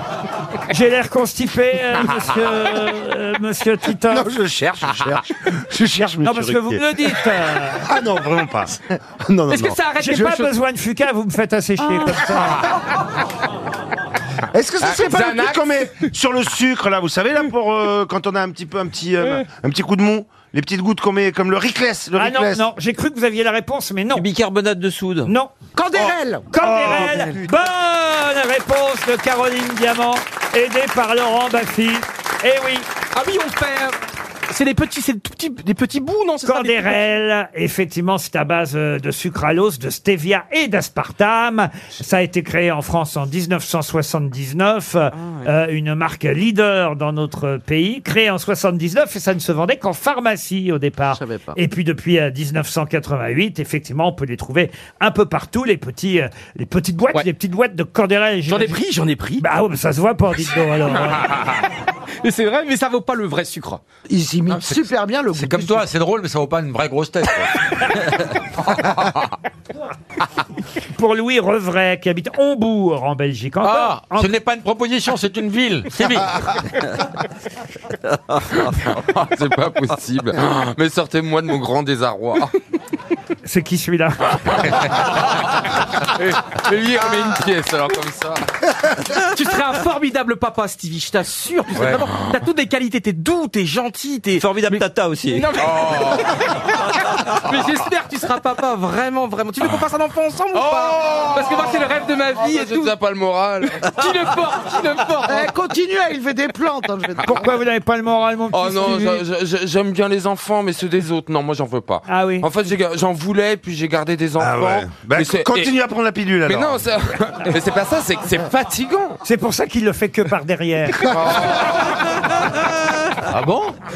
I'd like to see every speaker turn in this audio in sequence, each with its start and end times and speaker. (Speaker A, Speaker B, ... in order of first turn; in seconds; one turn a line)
Speaker A: 0.7-4.3
Speaker B: 4.1-6.8
Speaker A: 6.2-7.8
Speaker B: 7.8-9.8
Speaker C: 9.5-10.5
Speaker A: 10.0-12.7
Speaker B: 14.5-22.6
Speaker D: 14.8-15.6
Speaker A: 22.1-24.2
Speaker E: 24.1-25.3
Speaker A: 25.2-25.5
Speaker F: 25.8-27.2
Speaker B: 25.9-27.3
Speaker A: 26.5-32.9
Speaker C: 33.1-34.0
Speaker C: 34.5-37.0
Speaker A: 36.4-58.8
Speaker E: 45.1-45.4
Speaker F: 51.2-51.5
Speaker C: 58.5-59.4
Speaker A: 59.4-61.3
Speaker C: 62.2-63.8
Speaker F: 64.1-65.9
Speaker G: 64.5-67.9
Speaker A: 70.9-74.3
Speaker G: 73.6-76.6
Speaker D: 78.6-82.5
Speaker A: 83.4-84.8
Speaker D: 86.0-88.4
Speaker C: 89.3-96.6
Speaker E: 94.4-95.5
Speaker D: 95.6-96.3
Speaker C: 97.1-102.9
Speaker D: 100.5-101.9
Speaker D: 102.4-103.8
Speaker C: 103.8-105.5
Speaker F: 105.2-107.4
Speaker A: 107.2-109.2
Speaker D: 108.5-115.7
Speaker A: 112.1-112.5
Speaker B: 114.4-116.9
Speaker D: 116.5-119.2
Speaker A: 119.2-121.1
Speaker D: 121.0-121.9
Speaker G: 123.2-123.7